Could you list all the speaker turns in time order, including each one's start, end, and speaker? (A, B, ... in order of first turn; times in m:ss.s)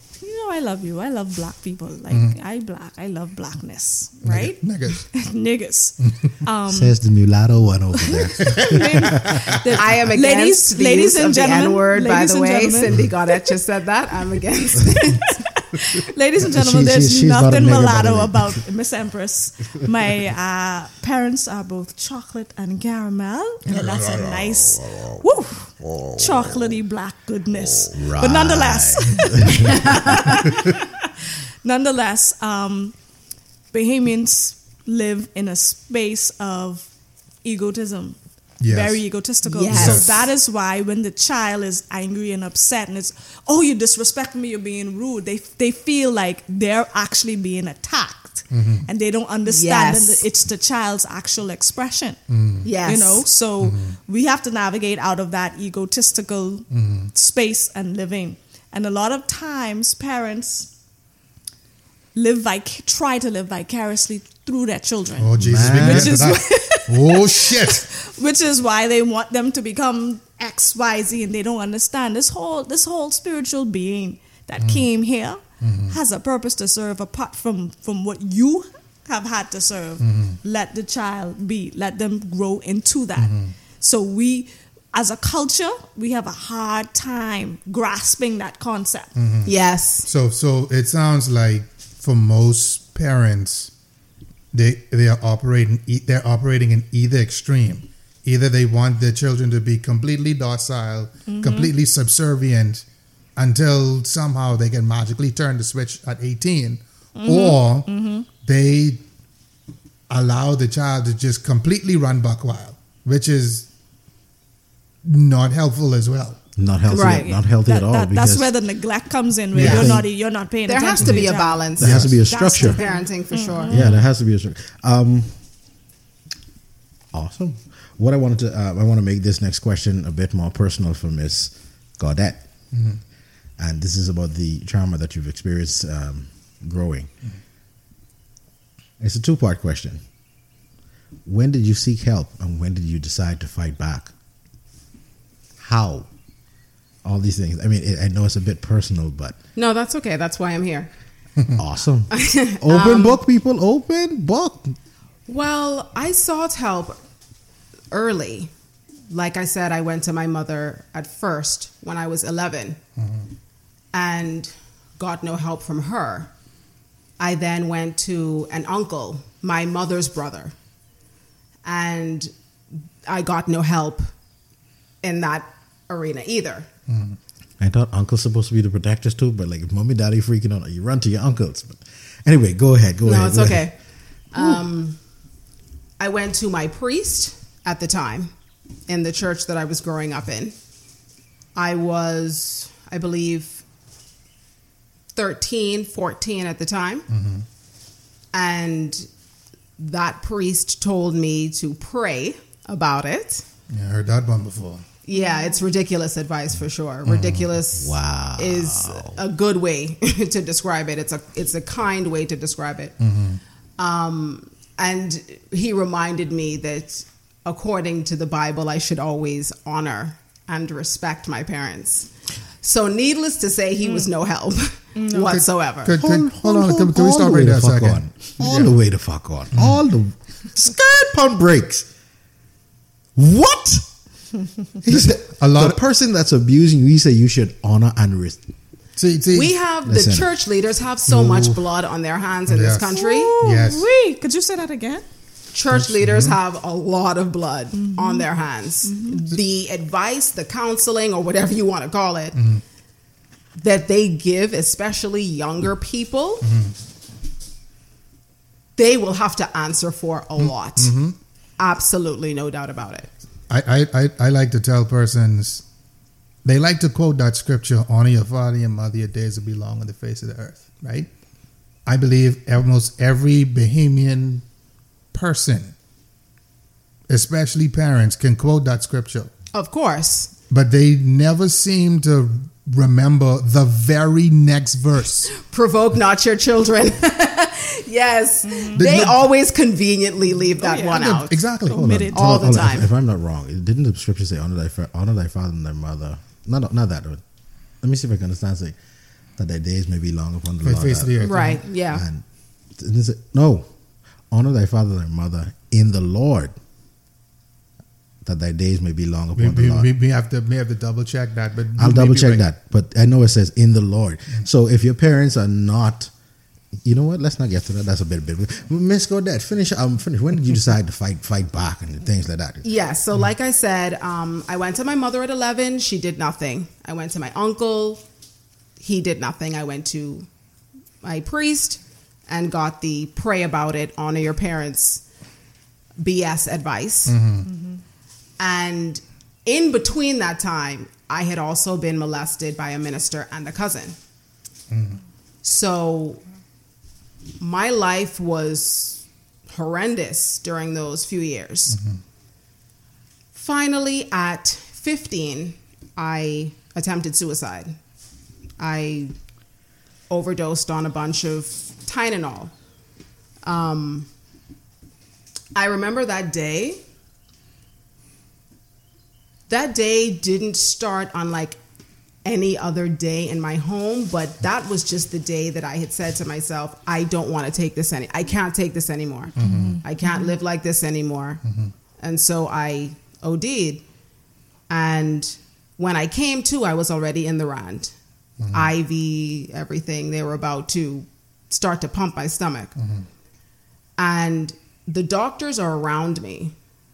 0:00.2-0:06.9 A
0:02.1-0:02.3 B
0:04.2-0:04.6 C
0:04.6-0:05.0 B
0:06.7-0:09.6 D
0:07.9-0:13.5 A
0:08.4-0:09.5 B
0:09.7-0:15.3 C
0:15.2-0:32.9 A
0:16.4-0:18.6 D
0:23.7-0:25.1 B
0:27.9-0:30.4 D
0:33.7-0:36.9 A
0:37.4-0:52.2 A
0:38.6-0:39.0 B
0:39.4-0:40.2 C
0:39.7-0:40.3 B
0:48.5-0:48.8 B
0:49.4-0:50.2 C
0:52.3-0:52.7 B
0:52.6-0:53.3 C
0:52.8-1:00.7 A
0:53.6-0:54.0 B
0:56.7-0:57.1 B
1:02.1-1:29.1 A
1:05.2-1:07.8 B
1:05.4-1:06.3 D
1:14.6-1:14.9 B
1:15.6-1:16.0 B
1:20.0-1:20.4 B
1:23.2-1:23.5 B
1:29.2-1:29.5 B
1:29.4-1:30.1 C
1:30.0-1:33.7 B
1:34.5-1:42.8 B
1:41.2-1:41.7 A
1:43.4-1:47.9 B
1:47.2-1:48.3 A
1:48.4-1:49.0 B
1:50.1-1:53.7 B
1:55.0-1:56.4 B
1:56.6-1:58.5 D
1:56.9-1:57.3 C
1:56.9-2:01.7 A
1:59.5-2:00.1 D
1:59.6-2:00.0 C
2:00.7-2:03.7 C
2:01.8-2:02.8 D
2:01.8-2:02.2 B
2:02.2-2:04.0 A
2:03.7-2:05.4 D
2:03.7-2:04.0 B
2:07.1-2:12.5 D
2:12.7-2:13.0 B
2:13.6-2:17.1 D
2:19.0-2:20.0 D
2:21.2-2:24.1 D
2:25.6-2:26.1 D
2:27.0-2:29.4 D
2:29.6-2:30.9 C
2:31.6-2:34.8 D
2:32.1-2:33.2 C
2:35.3-2:37.0 C
2:37.9-2:38.5 C
2:39.1-2:42.8 C
2:43.9-2:46.3 C
2:47.2-2:50.5 C
2:51.6-2:52.3 C
2:53.0-2:54.1 C
2:55.0-2:56.7 C
2:56.9-2:57.2 B
2:57.6-3:03.7 D
3:03.0-3:03.8 C
3:04.3-3:05.0 C
3:06.0-3:08.3 C
3:08.9-3:10.5 C
3:11.5-3:13.6 C
3:15.1-3:17.1 C
3:17.1-3:17.4 B
3:18.3-3:19.1 C
3:19.8-3:23.4 C
3:23.7-3:24.8 B
3:25.0-3:32.9 C
3:25.1-3:25.6 A
3:27.1-3:27.4 B
3:27.7-3:29.2 D
3:33.0-3:33.4 B
3:33.8-3:42.1 C
3:42.6-3:46.0 C
3:44.9-3:45.4 A
3:45.2-3:48.7 B
3:46.0-3:51.9 D
3:49.5-3:49.8 B
3:53.2-3:53.9 D
3:54.8-3:58.4 D
3:54.9-3:55.8 B
3:59.0-3:59.6 B
3:59.3-4:03.3 C
3:59.8-4:00.3 D
4:01.1-4:01.6 B
4:02.5-4:03.8 B
4:02.9-4:05.0 A
4:05.5-4:12.4 C
4:05.7-4:06.4 B
4:07.7-4:08.3 A
4:08.8-4:09.2 A
4:12.4-4:12.6 B
4:13.6-4:16.5 C
4:16.4-4:16.7 B
4:18.8-4:20.9 C
4:20.4-4:21.2 B
4:21.6-4:23.1 C
4:23.5-4:25.6 B
4:26.4-4:31.1 B
4:31.8-4:34.4 B
4:35.1-4:35.7 B
4:37.1-4:39.3 B
4:39.5-4:40.3 C
4:40.5-4:45.3 B
4:45.3-4:51.4 C
4:48.4-4:48.9 A
4:48.7-4:49.3 B
4:50.6-4:52.6 A
4:50.9-4:52.0 B
4:51.7-4:57.2 D
4:52.1-4:52.9 C
4:57.8-4:58.8 D
4:59.4-5:02.2 D
5:00.6-5:01.6 B
5:01.2-5:02.0 C
5:02.8-5:03.7 D
5:04.3-5:06.5 D
5:08.2-5:09.9 D
5:09.4-5:12.5 B
5:11.8-5:16.1 D
5:16.8-5:22.6 D
5:22.6-5:28.0 C
5:28.8-5:30.3 C
5:31.0-5:35.0 C
5:36.0-5:37.2 C
5:37.1-5:37.5 B
5:37.5-5:37.8 A
5:38.4-5:44.0 C
5:44.7-5:45.0 B
5:45.4-5:46.2 C
5:47.4-5:51.8 C
5:51.7-5:52.0 B
5:53.3-5:57.8 C
5:58.6-5:59.1 C
6:00.1-6:02.5 C
6:03.4-6:04.1 C
6:05.5-6:06.8 C
6:09.5-6:11.6 C
6:12.2-6:21.4 C
6:19.4-6:19.8 B
6:19.4-6:20.3 A
6:22.0-6:23.8 C
6:24.7-6:27.9 C
6:28.4-6:28.7 B
6:28.5-6:32.7 C
6:32.8-6:33.0 B
6:34.0-6:36.5 C